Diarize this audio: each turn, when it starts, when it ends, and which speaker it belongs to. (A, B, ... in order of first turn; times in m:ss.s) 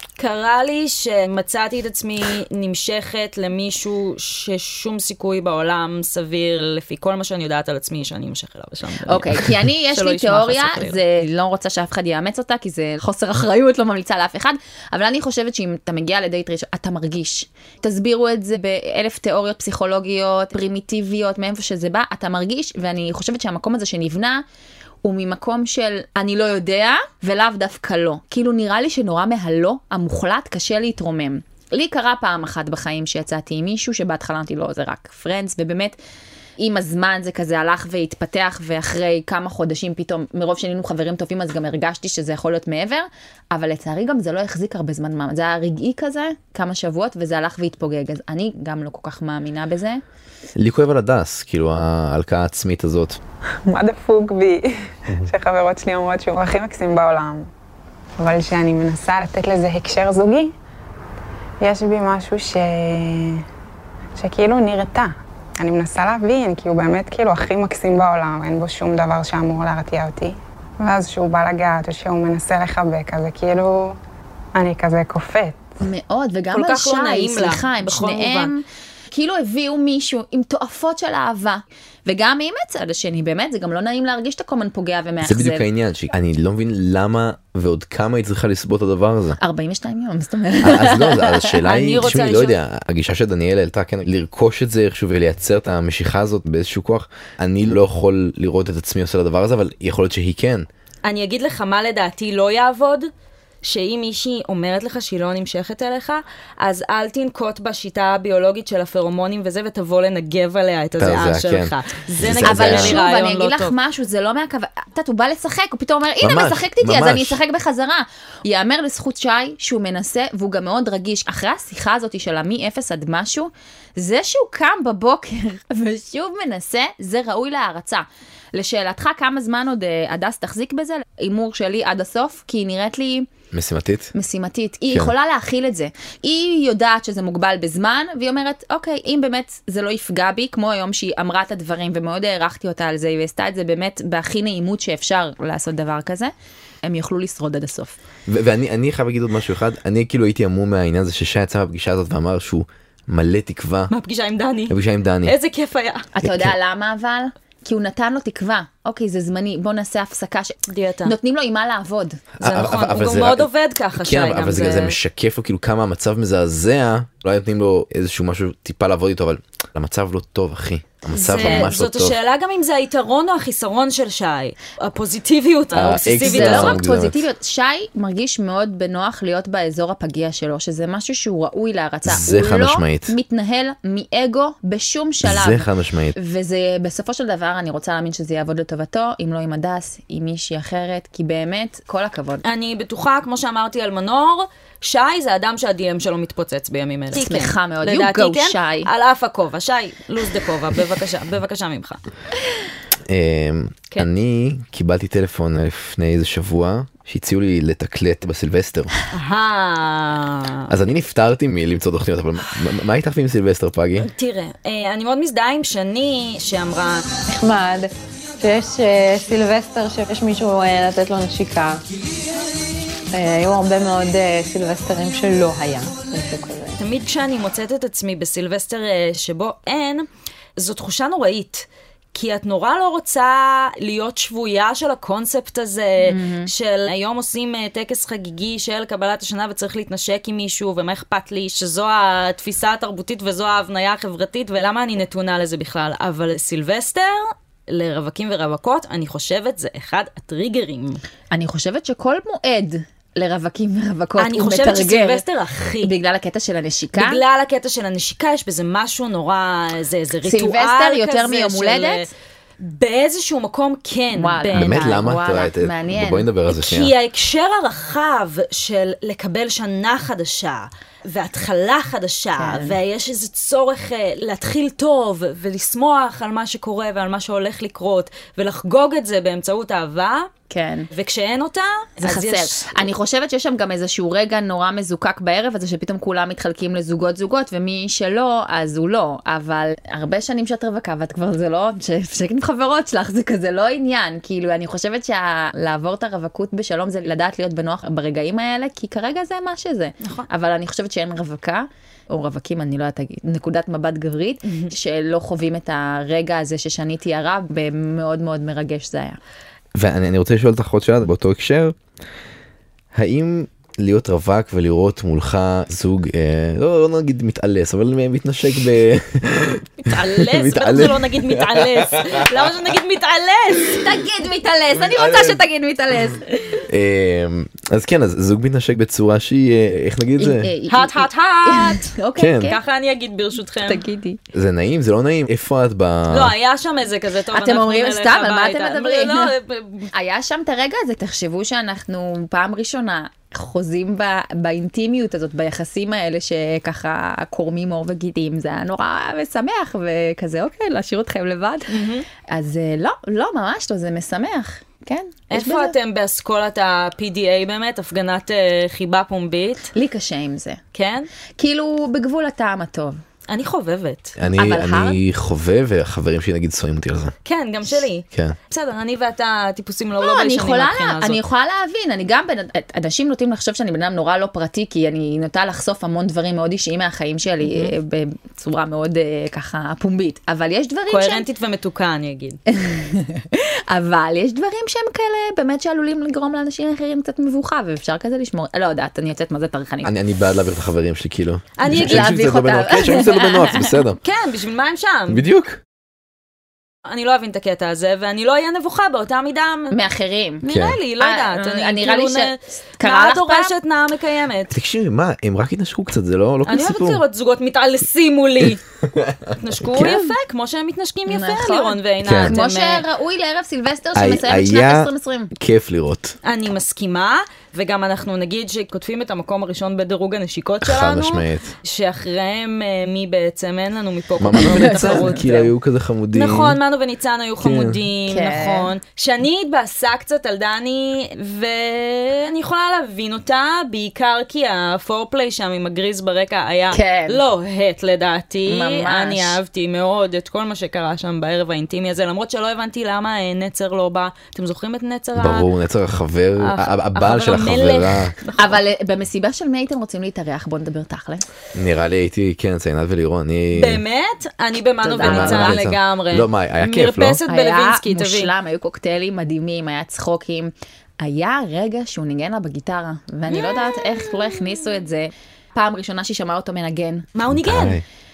0:00.2-0:11.0 A
0:09.0-0:24.4 B
0:25.0-0:36.0 B
0:36.6-0:50.0 B
0:50.6-0:53.2 C
0:53.7-0:54.7 D
0:55.2-0:57.5 D
0:58.2-1:00.5 D
1:01.6-1:03.4 D
1:04.2-1:14.0 D
1:14.5-1:15.7 D
1:15.8-1:25.6 B
1:16.5-1:18.5 A
1:25.2-1:29.4 C
1:29.4-1:31.5 B
1:30.6-1:40.7 C
1:31.6-1:32.5 A
1:41.0-1:43.1 A
1:43.6-1:53.7 A
1:51.0-1:53.0 C
1:52.4-2:13.3 B
1:56.2-1:57.4 C
2:13.5-2:14.1 C
2:14.1-2:28.0 B
2:28.3-2:33.9 C
2:33.9-2:36.1 A
2:34.7-2:35.3 C
2:36.2-2:42.2 B
2:36.2-2:36.5 C
2:40.7-2:41.1 A
2:42.4-2:52.2 C
2:42.4-2:45.0 A
2:51.1-2:56.8 A
2:51.2-2:51.7 B
2:55.7-2:57.2 C
2:55.9-3:12.4 B
3:02.0-3:03.1 C
3:05.2-3:06.2 C
3:12.4-3:22.0 A
3:17.1-3:18.9 B
3:23.1-3:28.9 C
3:29.1-3:30.7 A
3:30.7-3:34.1 C
3:34.0-3:37.0 A
3:37.2-3:41.9 E
3:43.1-3:46.8 E
3:46.8-4:11.0 A
3:56.0-3:56.5 B
4:11.3-4:15.2 B
4:14.2-4:15.9 A
4:15.8-4:17.2 B
4:17.0-4:24.9 A
4:20.2-4:22.1 B
4:24.1-4:26.3 B
4:24.5-4:26.9 C
4:26.5-4:40.3 A
4:32.4-4:32.8 B
4:40.5-4:40.9 B
4:40.9-4:42.8 A
4:42.0-5:09.2 B
5:09.7-5:11.8 C
5:12.9-5:22.2 C
5:19.9-5:23.8 A
5:23.6-5:26.3 B
5:24.8-5:25.4 C
5:26.7-5:30.5 C
5:30.2-5:32.6 B
5:30.7-5:33.8 A
5:32.2-5:32.5 C
5:33.6-5:34.2 B
5:34.3-5:36.3 C
5:36.1-5:39.9 A
5:37.3-5:39.3 B
5:39.9-5:55.7 B
5:51.7-5:52.0 A
5:55.3-5:59.7 A
5:59.7-6:00.6 B
6:00.7-6:01.1 A
6:01.4-6:03.0 B
6:03.3-6:04.2 A
6:04.2-6:07.1 C
6:04.3-6:05.0 B
6:07.2-6:11.2 A
6:10.0-6:21.2 B
6:17.4-6:17.7 A
6:20.9-6:22.4 A
6:22.5-6:29.9 B
6:29.8-6:34.0 C
6:31.6-6:32.2 A
6:31.6-6:33.7 B
6:34.0-6:35.2 A
6:35.1-6:35.6 C
6:36.8-6:39.8 A
6:39.7-6:40.4 B
6:40.4-6:44.5 A
6:40.4-6:40.8 C
6:41.0-6:43.5 B
6:44.5-6:47.0 C
6:46.5-6:48.6 A
6:49.0-6:49.3 C
6:49.4-6:52.8 A
6:49.8-6:50.1 B
6:51.1-6:55.3 B
6:52.0-6:52.4 C
6:54.0-6:56.2 C
6:56.2-7:05.5 A
7:00.6-7:01.5 C
7:04.2-7:06.6 C
7:04.4-7:05.2 B
7:06.1-7:25.5 A
7:07.4-7:07.8 C
7:08.0-7:08.7 B
7:16.7-7:17.2 B
7:18.4-7:19.4 B
7:25.2-7:28.1 C
7:26.4-7:28.6 A
7:28.4-7:31.2 B
7:31.5-7:33.8 C
7:33.5-7:38.3 A
7:34.8-7:35.6 B
7:35.0-7:37.2 C
7:37.2-7:47.0 B
7:47.1-7:47.8 A
7:47.3-7:47.8 C